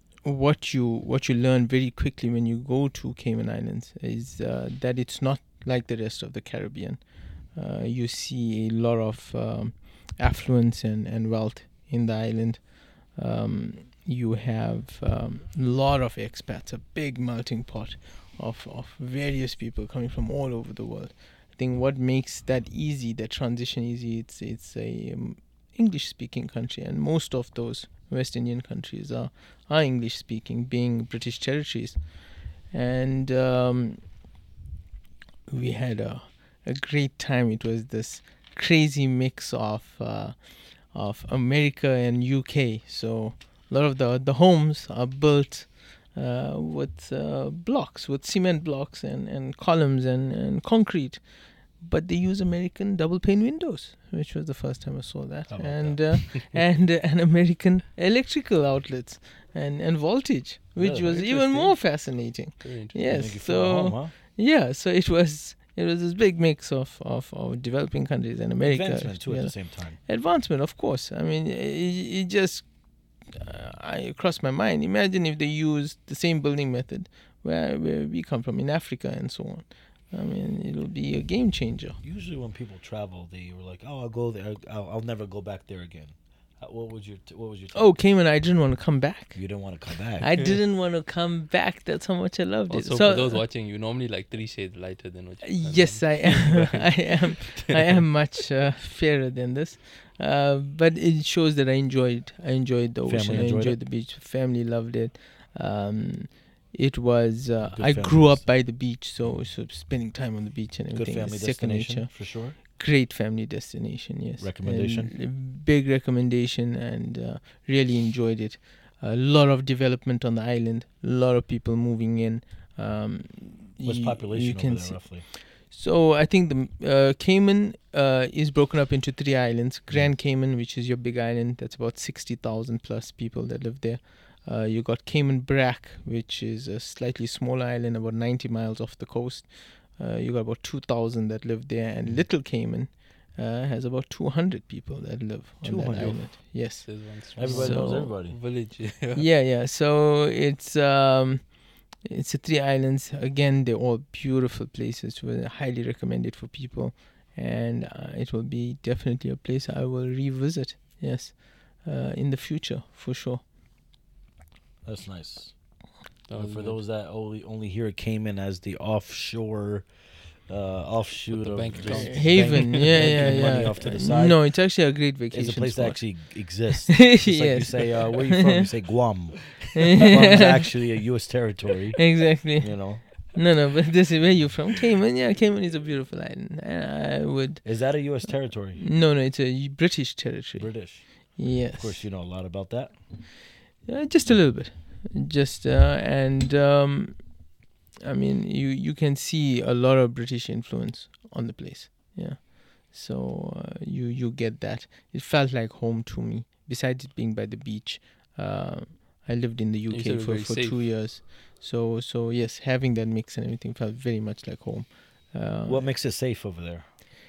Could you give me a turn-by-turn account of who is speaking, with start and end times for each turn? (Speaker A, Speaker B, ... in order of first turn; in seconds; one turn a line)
Speaker A: 0.2-34.2
Speaker A: 35.5-82.0
Speaker B: 55.5-56.6
Speaker B: 60.8-61.8
Speaker C: 62.6-63.3
Speaker B: 63.1-64.1
Speaker B: 68.6-70.0
Speaker B: 82.0-88.0
Speaker A: 87.7-93.4
Speaker B: 89.3-90.5
Speaker C: 92.7-97.7
Speaker A: 95.5-148.4
Speaker B: 103.0-103.8
Speaker B: 107.6-109.5
Speaker B: 110.9-112.6
Speaker B: 114.4-115.2
Speaker B: 123.8-125.3
Speaker B: 142.0-142.3
Speaker B: 145.6-146.8
Speaker C: 146.8-149.2
Speaker B: 147.3-148.4
Speaker A: 149.1-163.4
Speaker B: 164.8-183.3
Speaker C: 166.3-166.8
Speaker C: 171.3-174.3
Speaker A: 171.8-178.7
Speaker A: 180.0-180.7
Speaker A: 182.0-192.1
Speaker B: 187.6-188.8
Speaker B: 190.6-193.0
Speaker A: 193.8-215.9
Speaker C: 209.9-210.9
Speaker B: 215.6-216.9